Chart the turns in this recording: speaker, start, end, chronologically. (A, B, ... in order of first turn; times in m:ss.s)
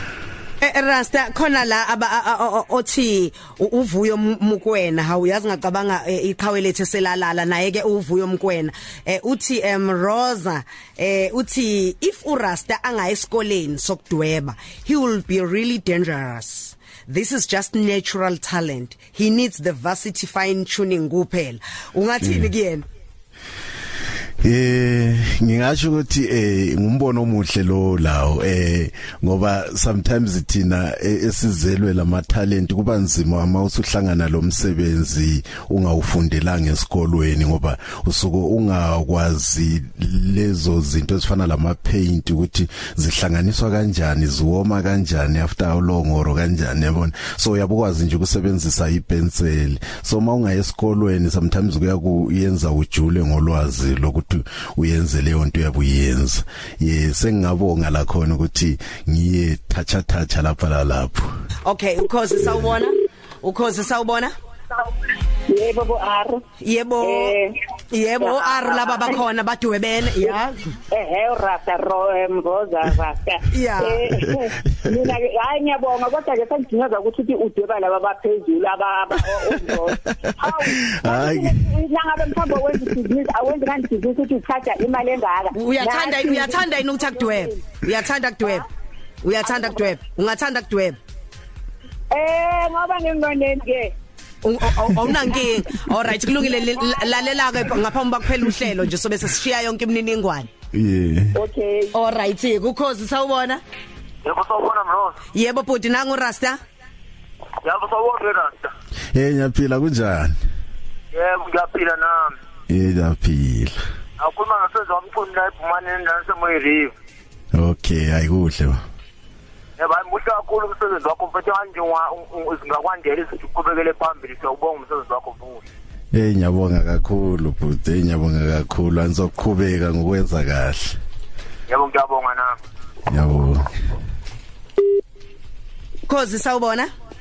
0:00.6-0:22.8 A
0:22.2-0:22.5 B
0:24.4-1:01.3 B
1:01.6-1:04.3 A
1:05.5-1:06.4 C
1:06.6-1:07.3 A
1:07.0-1:07.6 C
1:07.9-1:10.6 A
1:08.2-1:09.2 C
1:10.9-1:27.6 C
1:13.5-1:14.1 A
1:20.2-1:21.6 B
1:22.3-1:22.9 B
1:25.5-1:28.6 A
1:29.2-1:31.0 A
1:29.5-1:29.8 C
1:32.1-1:33.9 C
1:34.4-1:40.5 A
1:36.5-1:37.1 C
1:40.7-1:41.4 B
1:41.3-1:41.9 C
1:41.9-1:43.6 A
1:44.2-1:45.2 D
1:45.3-1:46.6 A
1:47.6-1:48.7 D
1:49.1-1:50.4 B
1:51.1-1:52.3 D
1:52.7-1:53.8 B
1:54.2-1:56.9 D
1:57.5-1:58.8 B
1:59.8-2:05.6 D
2:06.1-2:11.0 B
2:11.7-2:12.6 D
2:13.1-2:13.7 B
2:16.1-2:16.9 A